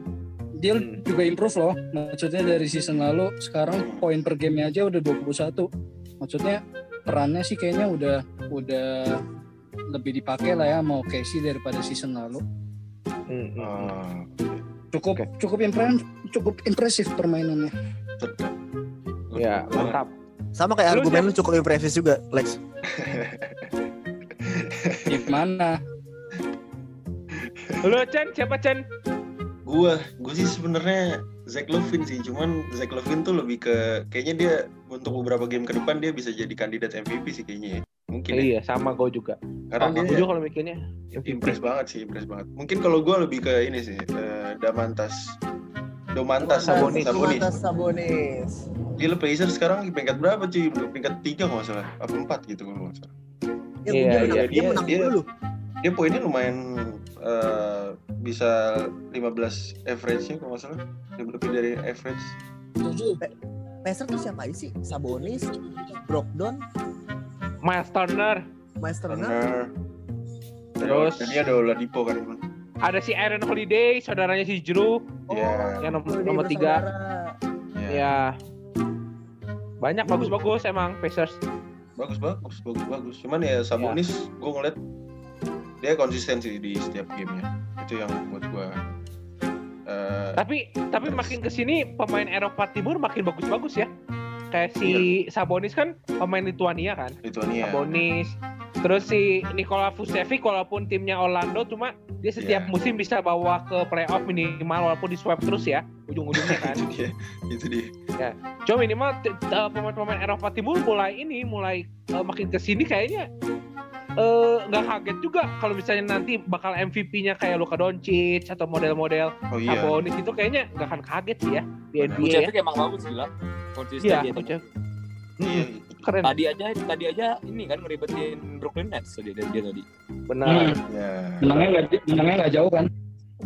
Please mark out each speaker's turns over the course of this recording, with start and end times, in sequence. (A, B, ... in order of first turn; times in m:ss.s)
0:00.6-0:05.7 A
0:00.7-0:01.0 B
0:03.7-0:04.0 C
0:06.2-0:09.2 A
0:09.9-0:12.4 A
0:13.3-0:13.9 B
0:13.6-0:14.6 C
0:14.9-0:17.7 A
0:18.2-0:18.5 C
0:19.3-0:20.0 C
0:19.3-0:20.1 B
0:20.6-0:22.6 D
0:20.9-0:21.3 B
0:22.9-0:23.7 C
0:24.4-0:25.3 C
0:25.1-0:25.7 A
0:27.3-0:27.9 C
0:27.8-0:28.8 B
0:29.6-0:38.5 C
0:38.3-0:41.6 B
0:39.7-0:40.3 C
0:41.2-0:45.4 C
0:46.1-0:47.6 C
0:46.4-0:48.6 D
0:46.6-0:47.2 B
0:49.0-0:53.1 C
0:53.8-0:55.3 D
0:53.9-0:54.8 B
0:54.1-0:55.1 C
0:55.8-1:02.3 C
1:02.8-1:03.2 A
1:03.8-1:05.5 D
1:06.0-1:06.6 D
1:07.6-1:08.4 B
1:08.8-1:09.4 D
1:09.1-1:09.7 C
1:10.8-1:12.4 C
1:10.8-1:11.4 B
1:12.8-1:15.0 B
1:15.3-1:17.3 D
1:15.3-1:15.8 C
1:15.8-1:16.8 B
1:17.7-1:18.1 C
1:17.9-1:18.3 B
1:19.8-1:21.4 B
1:22.0-1:24.8 C
1:25.8-1:28.8 C
1:29.9-1:30.4 C
1:30.4-1:33.9 B
1:31.0-1:31.3 C
1:34.5-1:46.8 B
1:34.8-1:35.1 C
1:37.2-1:38.0 C
1:42.4-1:42.7 C
1:46.3-1:47.9 C
1:48.2-1:53.3 B
1:54.2-2:02.5 B
1:59.5-2:00.0 C
2:02.0-2:02.3 C
2:02.2-2:04.6 E
2:04.0-2:04.6 B
2:05.4-2:06.3 B
2:05.4-2:06.1 C
2:06.2-2:09.8 E
2:10.3-2:10.8 B
2:10.4-2:10.8 A
2:10.9-2:11.6 C
2:11.4-2:12.9 A